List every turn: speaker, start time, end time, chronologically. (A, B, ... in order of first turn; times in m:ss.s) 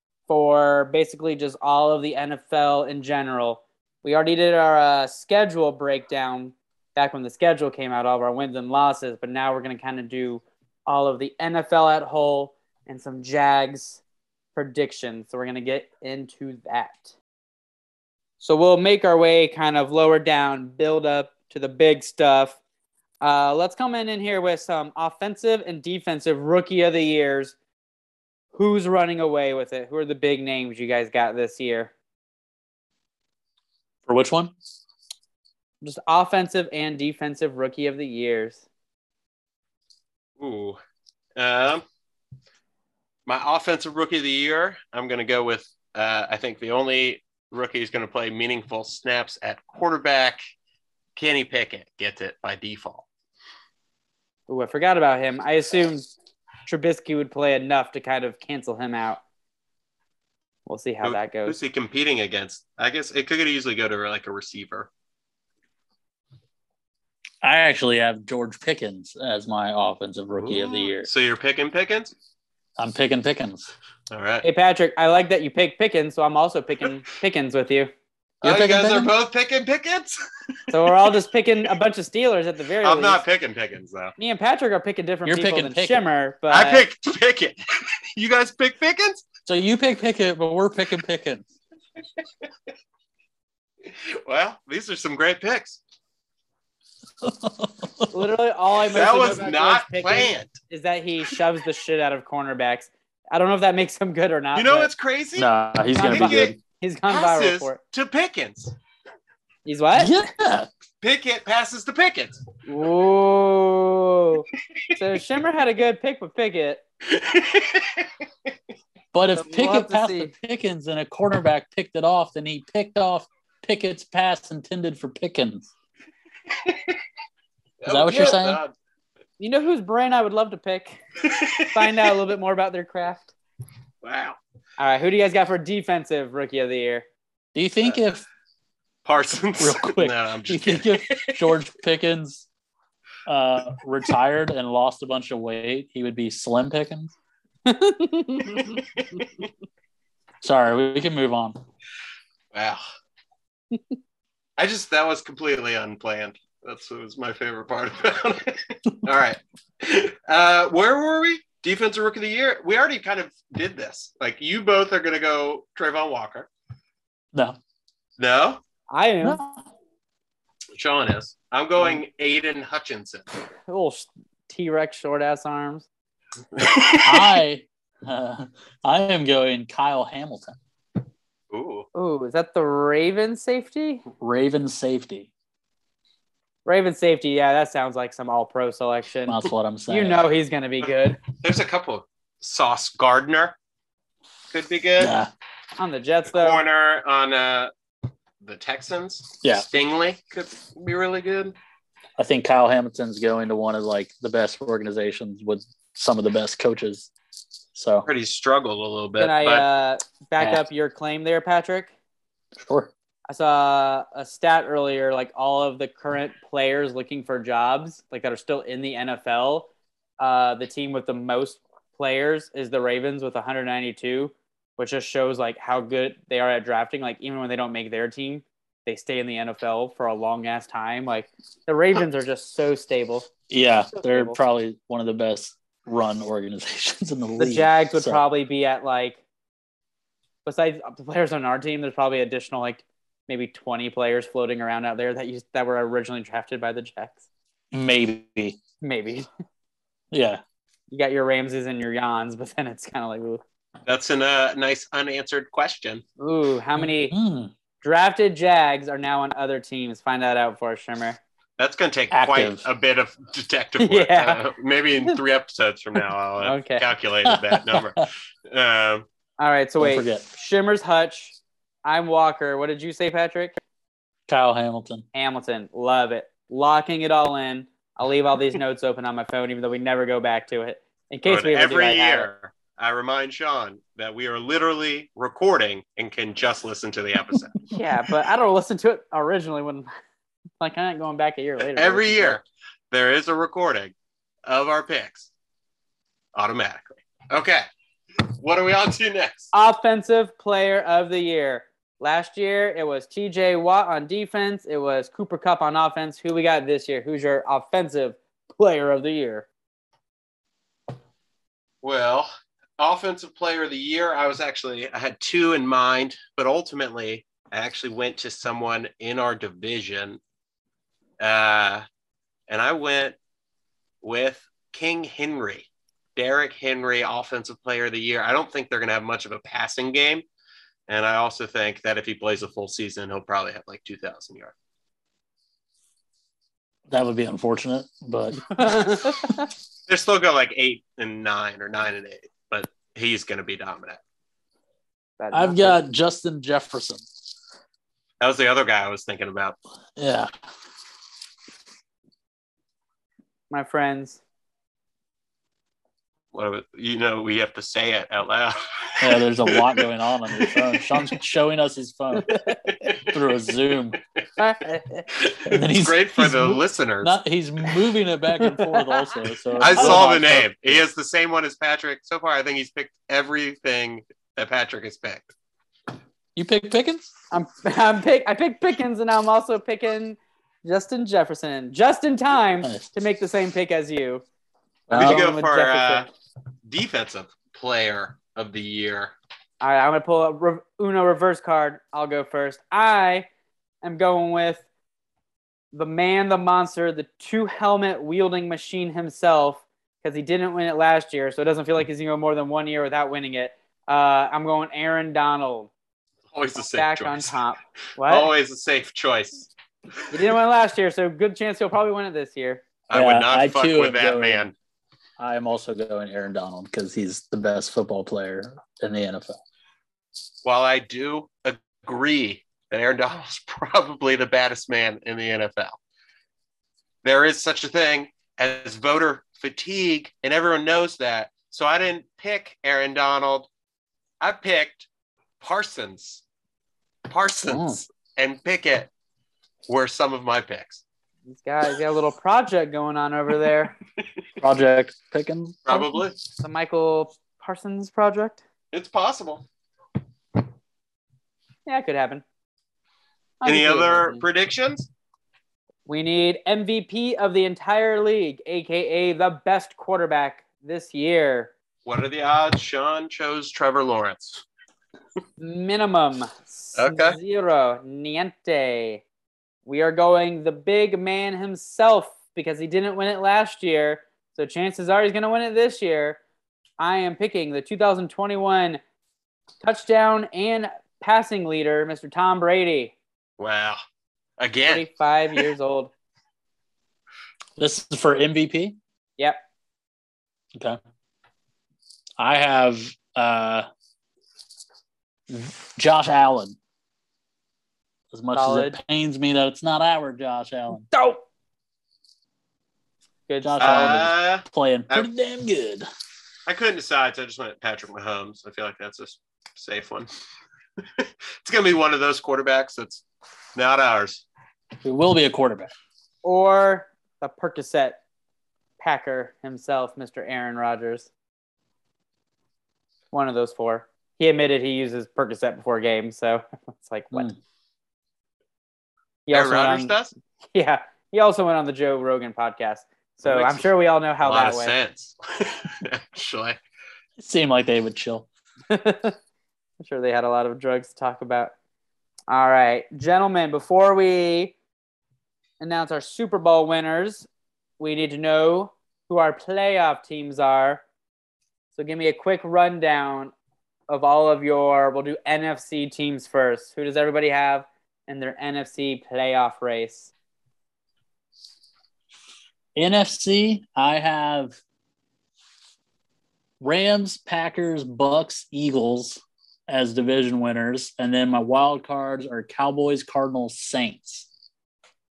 0:00.3-0:14.0 A
0:14.6-0:17.1 A
0:18.4-0:22.6 A
0:23.2-0:27.6 A
0:28.5-0:31.9 A
0:34.1-0:34.5 B
0:35.8-0:38.6 A
0:40.4-0:40.8 C
0:41.4-0:41.8 C
0:43.3-0:50.4 C
0:51.2-0:53.1 C
0:54.5-0:56.1 A
0:56.7-0:59.2 A
1:00.7-1:01.6 A
1:01.0-1:04.9 C
1:07.4-1:11.1 B
1:10.4-1:12.1 C
1:12.8-1:13.7 B
1:14.1-1:14.5 C
1:14.4-1:17.9 A
1:18.4-1:19.1 B
1:18.4-1:20.2 C
1:20.7-1:23.2 A
1:22.8-1:24.1 C
1:24.2-1:26.9 A
1:25.2-1:26.0 B
1:26.5-1:29.2 C
1:29.5-1:31.5 B
1:33.9-1:35.8 C
1:37.2-1:38.1 B
1:38.1-1:44.9 A
1:38.9-1:40.5 C
1:44.6-1:46.6 C
1:45.4-1:46.6 B
1:45.9-1:47.8 A
1:47.1-1:48.7 C
1:49.6-1:50.1 A
1:50.0-1:50.7 B
1:51.0-1:52.4 C
1:52.7-1:56.8 A
1:57.1-1:58.1 C
1:59.1-2:05.7 B
1:59.3-2:00.3 A
2:06.5-2:07.0 C
2:07.8-2:08.7 C
2:07.9-2:08.6 B
2:09.4-2:11.0 A
2:11.2-2:12.1 C
2:11.7-2:13.3 A
2:14.0-2:14.4 C
2:14.8-2:17.1 A
2:17.6-2:18.2 B
2:19.0-2:21.5 C
2:19.6-2:22.5 B
2:23.3-2:27.1 B
2:27.7-2:28.8 A
2:30.4-2:31.6 B
2:32.5-2:32.8 C
2:34.6-2:46.5 C
2:48.2-2:48.6 C
2:48.9-2:49.4 A
2:49.2-2:49.6 B
2:50.8-2:53.2 C
2:53.7-2:55.9 A
2:56.6-2:57.4 C
2:57.0-3:00.6 B
3:01.5-3:01.9 C
3:02.0-3:04.0 A
3:04.2-3:05.3 B
3:06.6-3:11.2 A
3:09.3-3:10.2 B
3:11.3-3:13.6 C
3:14.5-3:15.2 C
3:15.0-3:15.3 B
3:15.8-3:16.6 A
3:16.3-3:17.7 C
3:18.4-3:21.6 C
3:22.2-3:27.1 B
3:27.8-3:28.1 B
3:28.1-3:29.6 C
3:29.2-3:31.9 A
3:32.6-3:32.9 B
3:33.3-3:53.3 A
3:53.5-3:58.2 B
3:53.9-3:54.4 A
3:57.4-3:59.2 A
4:00.4-4:07.2 A
4:07.7-4:08.6 B
4:08.8-4:09.3 A
4:10.1-4:10.4 B
4:10.9-4:13.4 A
4:13.9-4:16.0 C
4:16.2-4:17.2 A
4:16.8-4:17.5 B
4:17.8-4:21.2 A
4:21.6-4:29.1 C
4:22.1-4:22.6 B
4:23.8-4:24.4 A
4:26.4-4:26.9 A
4:27.2-4:28.1 B
4:29.4-4:33.6 A
4:29.8-4:30.2 B
4:34.3-4:35.0 B
4:35.1-4:42.3 A
4:41.3-4:47.6 C
4:47.7-4:49.9 A
4:50.6-4:52.4 A
4:51.8-4:53.9 C
4:54.4-4:55.3 C
4:56.4-4:57.7 C
4:58.2-4:59.5 C
4:59.5-5:09.5 A
5:11.8-5:20.2 C
5:21.2-5:21.8 C
5:22.5-5:23.2 C
5:24.0-5:30.2 C
5:30.9-5:34.5 C
5:36.9-5:38.8 B
5:38.5-5:39.4 A
5:39.9-5:44.0 C
5:45.2-5:45.8 A
5:45.3-5:47.1 B
5:48.2-5:49.6 C
5:50.0-5:50.3 B
5:53.5-5:54.2 A
5:56.3-6:00.8 C
5:59.0-6:02.4 B
6:02.3-6:02.6 A
6:02.6-6:03.1 C
6:03.0-6:04.0 B
6:04.4-6:05.0 A
6:05.1-6:07.2 C
6:05.5-6:10.8 B
6:08.4-6:10.0 A
6:09.6-6:15.3 C
6:16.4-6:17.1 B
6:17.3-6:24.2 A
6:24.9-6:25.3 B
6:24.9-6:26.1 A
6:24.9-6:26.1 C
6:26.7-6:29.1 C
6:29.6-6:33.3 A
6:33.8-6:34.6 A
6:35.7-6:45.7 A
6:46.3-6:47.4 C
6:46.8-6:48.3 A
6:48.1-6:49.5 C
6:50.1-6:52.6 A
6:52.9-6:54.5 C
6:52.9-6:54.4 B
6:55.2-6:59.4 B
7:00.4-7:05.8 C
7:07.0-7:13.5 C
7:14.2-7:14.9 C
7:15.4-7:16.2 C
7:17.1-7:18.9 C
7:17.5-7:17.8 B
7:19.7-7:20.8 C
7:21.3-7:23.8 A
7:24.4-7:25.9 B
7:25.7-7:26.2 C
7:26.4-7:28.4 A
7:28.7-7:29.5 C
7:31.7-7:32.2 A
7:33.4-7:34.2 A
7:33.4-7:34.9 C
7:35.9-7:41.5 A
7:41.8-7:44.4 C
7:45.4-7:49.0 A
7:46.8-7:47.2 C
7:49.7-7:56.2 A
7:56.8-7:58.8 A
7:59.6-8:02.9 A
8:03.4-8:03.8 C
8:04.4-8:05.4 C
8:04.6-8:05.9 A
8:07.6-8:08.8 B
8:12.2-8:13.7 B
8:15.3-8:16.6 B
8:18.1-8:20.9 B
8:18.3-8:18.8 A
8:20.9-8:21.2 A
8:23.3-8:24.0 A
8:23.4-8:25.9 B
8:23.6-8:25.1 C
8:26.5-8:30.1 C
8:30.8-8:33.0 C
8:33.6-8:34.2 C
8:34.8-8:35.7 B
8:36.2-8:38.0 A
8:38.8-8:41.1 A
8:43.1-8:47.3 A
8:49.3-8:50.0 A
8:49.3-8:50.1 C
8:50.5-8:54.7 A
8:53.2-8:53.7 C
8:54.2-8:56.6 C
8:57.2-8:58.3 B
8:58.7-8:59.2 A
8:59.8-9:01.5 A
9:02.3-9:04.6 A
9:05.6-9:07.3 A
9:07.8-9:10.8 A
9:11.8-9:13.3 A
9:13.9-9:20.1 A
9:22.8-9:24.6 B
9:26.6-9:34.3 B